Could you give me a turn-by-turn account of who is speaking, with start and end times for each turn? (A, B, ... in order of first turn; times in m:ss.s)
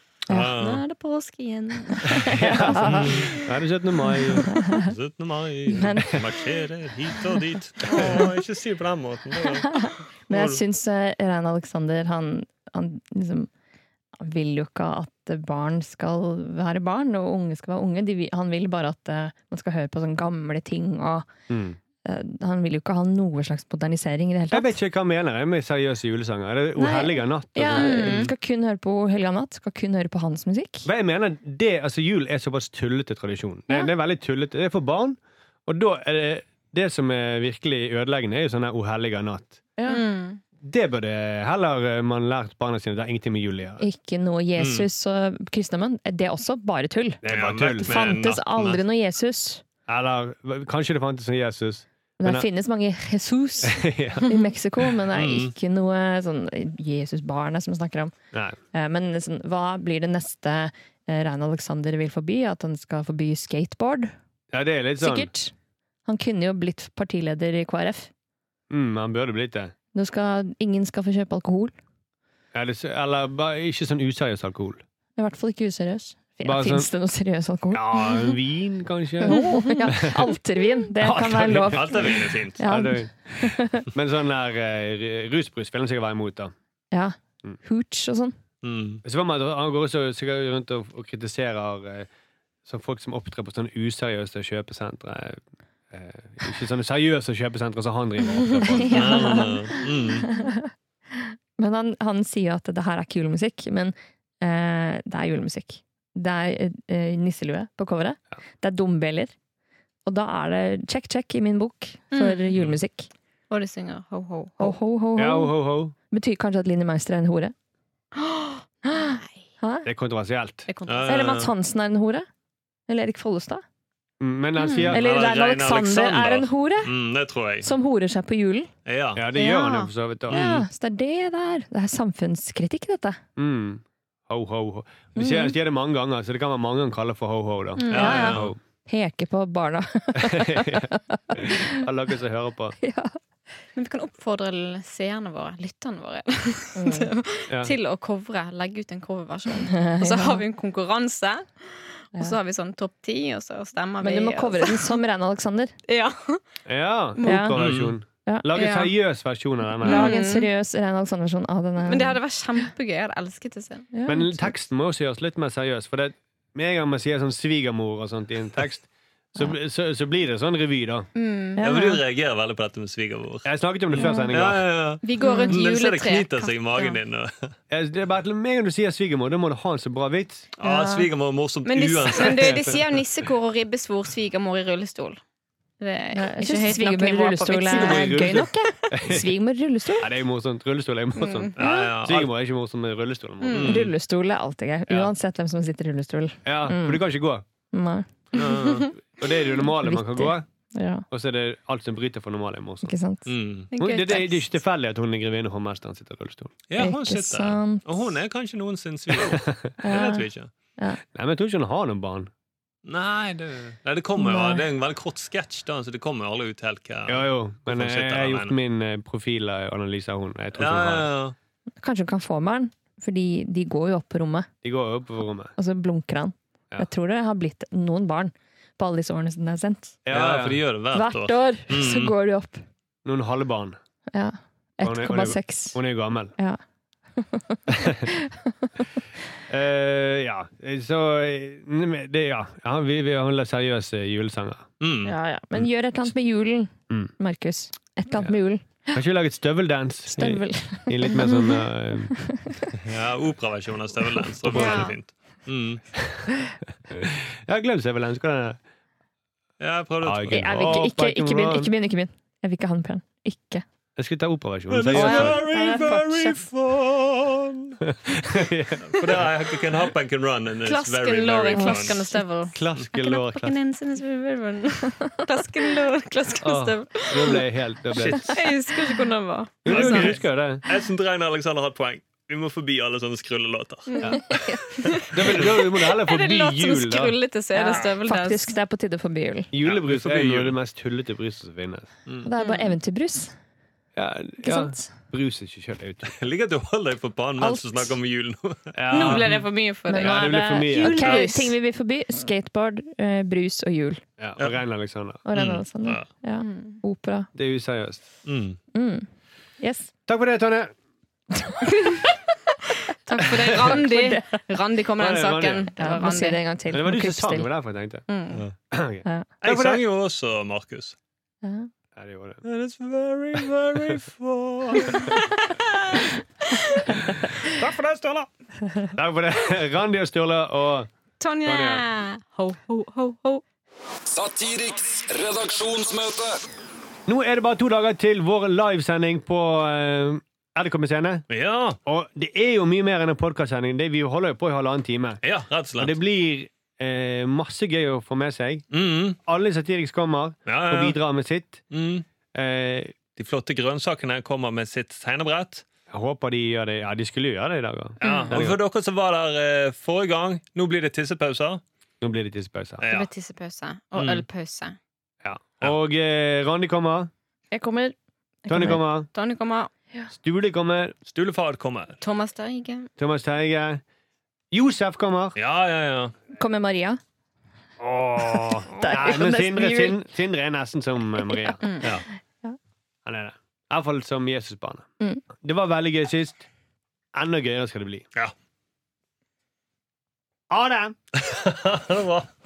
0:00.3-0:00.8 A
0:00.6-0:03.4 B
0:02.2-0:04.6 C
0:02.7-0:03.1 D
0:04.5-0:04.9 D
0:04.8-0:10.6 A
0:05.7-0:06.3 D
0:07.9-0:08.2 D
0:07.9-0:08.2 B
0:09.7-0:13.5 D
0:14.2-0:21.3 D
0:21.5-0:21.8 C
0:22.0-0:24.7 D
0:24.5-0:28.3 C
0:26.8-0:30.9 D
0:27.8-0:28.3 B
0:30.8-0:39.6 C
0:39.8-0:40.0 D
0:39.9-0:40.4 B
0:40.6-0:43.8 C
0:43.8-0:47.2 D
0:44.6-0:44.9 A
0:47.2-0:48.0 C
0:47.3-0:48.8 A
0:47.8-0:49.6 D
0:49.9-0:52.5 C
0:52.2-0:58.1 D
0:53.6-0:54.3 C
0:55.1-0:55.5 A
0:58.7-1:04.1 D
1:04.5-1:05.3 C
1:05.0-1:05.5 D
1:06.1-1:08.1 D
1:08.7-1:09.7 C
1:09.9-1:11.7 D
1:12.5-1:14.8 C
1:15.2-1:18.0 D
1:16.4-1:16.9 C
1:17.7-1:20.3 C
1:19.2-1:23.9 D
1:19.3-1:19.9 B
1:21.0-1:26.5 C
1:21.7-1:22.6 A
1:26.9-1:28.4 D
1:28.6-1:29.0 A
1:29.0-1:32.1 C
1:32.7-1:35.4 C
1:35.9-1:39.4 C
1:38.4-1:49.3 D
1:38.9-1:40.3 A
1:50.0-1:53.1 D
1:52.1-1:52.4 B
1:53.5-1:54.8 B
1:54.6-1:55.6 D
1:55.2-1:55.9 C
1:56.1-1:57.5 D
1:58.2-1:59.3 B
1:58.9-1:59.9 D
1:59.8-2:00.7 C
2:00.7-2:01.4 B
2:00.9-2:01.5 A
2:01.1-2:02.3 D
2:02.9-2:03.6 D
2:04.2-2:05.0 C
2:04.6-2:04.9 B
2:04.9-2:07.7 A
2:04.9-2:06.9 D
2:07.6-2:08.7 D
2:08.9-2:09.2 A
2:09.2-2:10.4 C
2:09.4-2:10.5 B
2:10.3-2:10.6 A
2:10.3-2:13.2 D
2:13.4-2:18.6 C
2:15.2-2:15.5 D
2:17.8-2:18.3 B
2:17.9-2:18.5 A
2:17.9-2:21.7 D
2:20.2-2:22.8 C
2:22.8-2:23.2 D
2:23.8-2:35.0 B
2:26.8-2:27.1 D
2:27.5-2:27.8 C
2:29.7-2:30.4 D
2:34.0-2:35.8 D
2:35.9-2:36.4 B
2:36.7-2:40.1 C
2:37.2-2:37.6 D
2:37.6-2:38.0 A
2:38.5-2:38.9 B
2:39.8-2:40.5 B
2:39.8-2:42.2 D
2:41.8-2:43.9 B
2:43.9-2:44.5 D
2:44.1-2:51.1 C
2:51.2-2:51.6 B
2:51.6-2:52.0 D
2:51.6-2:57.5 A
2:53.4-2:54.7 C
2:54.0-2:54.3 D
2:55.0-2:57.0 B
2:55.2-2:55.6 D
2:57.7-3:00.5 C
3:00.6-3:02.9 A
3:00.6-3:01.1 D
3:01.6-3:05.2 B
3:05.8-3:08.4 B
3:06.1-3:10.1 D
3:07.6-3:09.3 C
3:10.0-3:13.8 C
3:11.2-3:11.9 B
3:11.6-3:12.3 A
3:13.4-3:13.8 B
3:13.5-3:13.9 A
3:13.6-3:17.0 D
3:14.9-3:15.1 C
3:16.4-3:17.4 C
3:17.7-3:18.1 D
3:18.3-3:18.9 A
3:18.4-3:18.9 B
3:19.2-3:20.5 C
3:19.7-3:21.0 D
3:21.1-3:22.9 C
3:22.8-3:23.3 D
3:23.3-3:23.7 A
3:23.7-3:24.4 B
3:23.8-3:26.6 C
3:26.7-3:30.5 A
3:26.8-3:27.9 D
3:29.8-3:30.3 D
3:31.1-3:32.3 C
3:32.9-3:38.6 A
3:34.2-3:34.6 D
3:37.1-3:41.1 C
3:40.6-3:41.4 A
3:41.8-3:44.5 D
3:44.6-3:45.6 C
3:45.6-3:50.0 D
3:50.0-3:50.6 C
3:50.1-3:52.1 A
3:50.9-3:52.6 D
3:53.0-3:53.8 C
3:54.1-3:55.8 D
3:54.8-3:56.4 C
3:57.2-3:59.0 D
3:59.5-4:04.7 C
4:04.8-4:05.1 A
4:05.0-4:09.0 D
4:08.9-4:12.2 C
4:10.1-4:11.3 D
4:12.3-4:12.6 D
4:12.8-4:15.8 A
4:14.5-4:14.9 C
4:14.5-4:14.9 D
4:14.6-4:14.9 B
4:16.9-4:18.6 C
4:19.6-4:20.7 A
4:20.0-4:21.7 C
4:20.3-4:23.6 D
4:24.0-4:25.7 C
4:24.7-4:27.8 A
4:24.9-4:26.4 D
4:27.8-4:29.3 C
4:28.8-4:32.1 A
4:30.6-4:37.4 B
4:31.5-4:32.2 D
4:32.5-4:33.6 C
4:36.4-4:38.4 C
4:37.9-4:38.4 A
4:38.3-4:40.1 B
4:39.6-4:40.6 C
4:39.7-4:44.0 A
4:43.9-4:48.5 B
4:44.0-4:45.0 D
4:45.1-4:47.2 C
4:47.5-4:49.5 D
4:47.7-4:47.9 A
4:49.5-4:51.9 C
4:49.6-4:50.6 A
4:52.2-4:53.3 D
4:52.4-4:52.8 B
4:54.0-4:56.1 C
4:54.4-4:54.9 D
4:56.0-4:59.4 A
4:57.4-4:57.9 D
4:58.7-4:59.4 C
4:58.9-5:01.6 B
4:59.9-5:04.0 D
5:00.0-5:01.2 C
5:04.2-5:05.2 C
5:05.2-5:07.3 D
5:05.3-5:06.1 A
5:06.4-5:06.8 B
5:07.3-5:08.0 C
5:08.2-5:08.6 A
5:08.7-5:09.1 D
5:09.6-5:09.9 D
5:10.1-5:10.7 C
5:11.4-5:12.1 D
5:13.0-5:16.4 B
5:13.2-5:13.8 C
5:13.6-5:14.5 D
5:15.0-5:15.7 C
5:15.8-5:17.5 D
5:16.7-5:18.0 C
5:18.1-5:18.4 B
5:18.7-5:19.8 C
5:19.4-5:21.0 A
5:21.4-5:21.7 D
5:22.0-5:22.4 C
5:22.4-5:25.2 A
5:25.9-5:26.8 B
5:27.4-5:28.3 A
5:28.9-5:30.9 C
5:31.2-5:33.4 B
5:31.4-5:31.8 C
5:34.1-5:36.4 E
5:37.1-5:41.2 C
5:41.3-5:41.8 A
5:41.8-5:45.2 C
5:45.2-5:46.0 A
5:45.8-5:48.7 C
5:48.7-5:49.2 A
5:49.2-5:51.6 C
5:50.5-5:51.0 A
5:51.7-5:52.0 A
5:52.3-5:53.0 C
5:53.2-5:55.6 A
5:55.9-5:58.6 C
5:58.0-6:01.6 A
5:58.0-5:58.4 B
6:02.0-6:02.8 C
6:02.8-6:03.1 A
6:02.9-6:04.8 B
6:04.0-6:04.2 A
6:05.2-6:07.1 C
6:07.5-6:08.0 D
6:08.5-6:08.8 D
6:08.5-6:09.1 C
6:09.1-6:09.7 B
6:10.1-6:11.0 C
6:11.1-6:12.0 A
6:12.0-6:12.9 B
6:13.0-6:13.8 C
6:14.5-6:15.4 C
6:15.4-6:16.1 A
6:16.3-6:17.0 D
6:17.8-6:21.7 C
6:18.8-6:19.9 D
6:23.0-6:26.5 C
6:27.1-6:28.1 C
6:30.5-6:31.0 C
6:31.2-6:32.3 A